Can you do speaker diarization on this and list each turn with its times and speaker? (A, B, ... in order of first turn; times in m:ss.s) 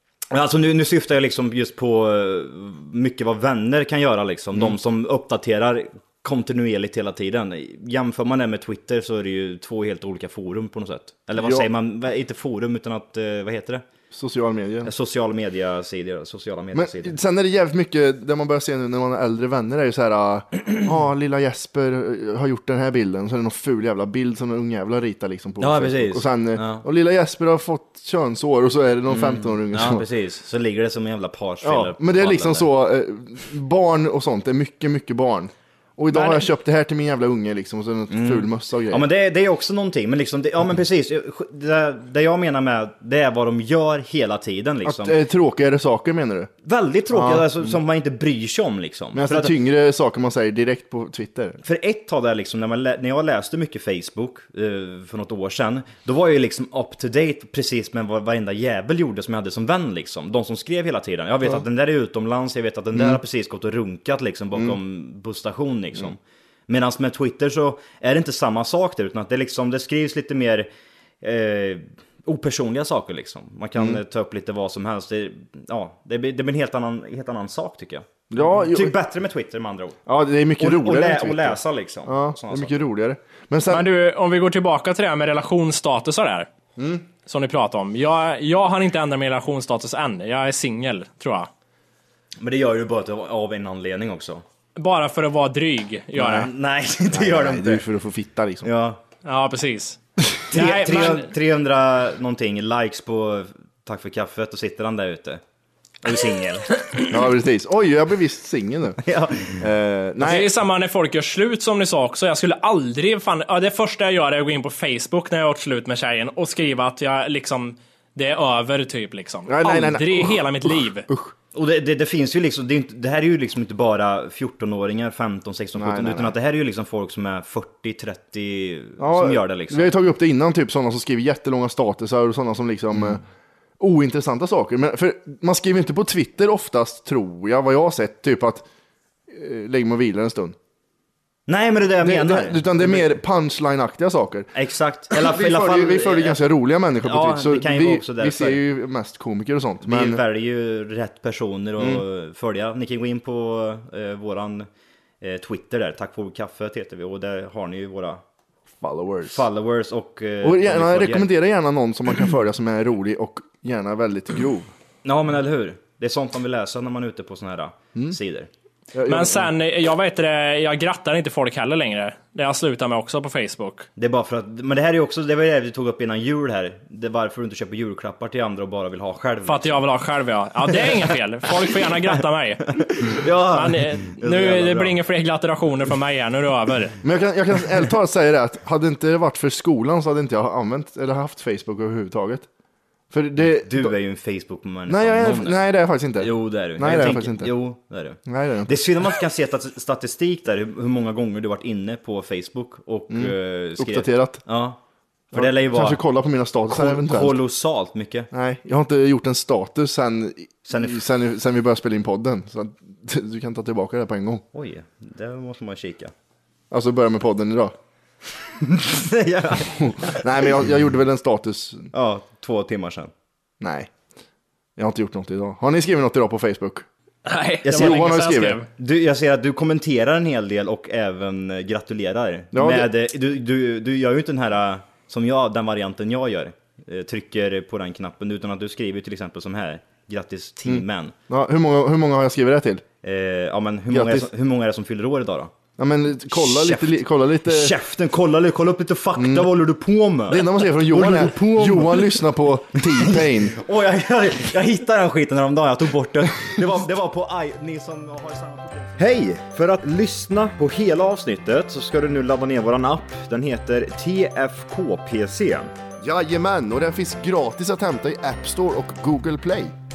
0:00.3-0:13.8 A
0:11.4-0:11.7 B
0:14.1-0:14.9 B
0:14.8-0:17.1 A
0:16.7-0:30.0 B
0:25.6-0:26.8 A
0:29.1-0:32.6 A
0:31.6-0:39.0 B
0:36.1-0:36.4 A
0:38.1-0:45.1 A
0:44.8-0:46.5 B
0:46.6-0:49.5 A
0:47.1-0:47.8 B
0:49.1-0:51.6 B
0:51.6-1:10.7 A
1:11.2-1:20.0 A
1:18.3-1:19.0 B
1:20.1-1:23.8 B
1:20.6-1:22.7 A
1:23.7-1:26.5 C
1:26.8-1:27.0 B
1:27.2-1:31.5 C
1:32.4-1:34.4 A
1:34.8-1:36.5 C
1:36.2-1:37.8 A
1:37.1-1:38.7 B
1:38.6-1:39.0 A
1:39.2-1:40.0 C
1:40.5-1:41.3 C
1:40.5-1:45.4 A
1:46.0-1:47.1 A
1:47.1-1:49.0 B
1:49.0-1:49.6 A
1:49.5-1:50.5 B
1:50.2-2:01.1 C
1:59.5-2:01.3 B
2:01.5-2:09.9 A
2:05.7-2:06.3 B
2:09.0-2:13.2 B
2:13.8-2:18.6 B
2:19.3-2:20.6 B
2:21.5-2:23.1 A
2:22.0-2:24.5 B
2:24.5-2:26.4 A
2:25.1-2:30.2 B
2:27.0-2:28.6 A
2:29.8-2:34.6 A
2:31.8-2:32.0 B
2:35.2-2:38.2 A
2:38.8-2:39.4 B
2:39.3-2:41.3 A
2:40.4-2:44.7 B
2:45.0-2:48.5 A
2:48.9-2:49.5 B
2:49.1-2:53.9 C
2:54.0-2:59.8 A
2:59.4-3:07.0 C
3:02.7-3:05.0 A
3:07.0-3:12.5 B
3:13.1-3:13.9 B
3:13.6-3:24.8 A
3:14.9-3:17.5 B
3:18.2-3:18.7 B
3:23.1-3:24.4 B
3:25.3-3:26.0 A
3:25.3-3:27.4 B
3:26.7-3:28.3 A
3:28.3-3:34.4 B
3:30.6-3:31.0 A
3:34.5-3:36.1 A
3:36.7-3:37.7 B
3:38.6-3:40.2 A
3:39.7-3:41.9 B
3:41.9-3:43.1 A
3:43.6-3:43.9 B
3:44.8-3:46.8 B
3:47.2-3:48.7 C
3:47.6-3:48.2 A
3:47.7-3:48.6 B
3:48.7-4:01.1 A
3:52.5-3:52.9 B
4:00.7-4:02.8 B
4:03.0-4:05.5 A
4:03.9-4:04.3 B
4:05.8-4:07.7 B
4:06.3-4:12.2 A
4:09.2-4:09.5 B
4:10.3-4:13.6 B
4:12.8-4:25.7 A
4:26.0-4:29.7 B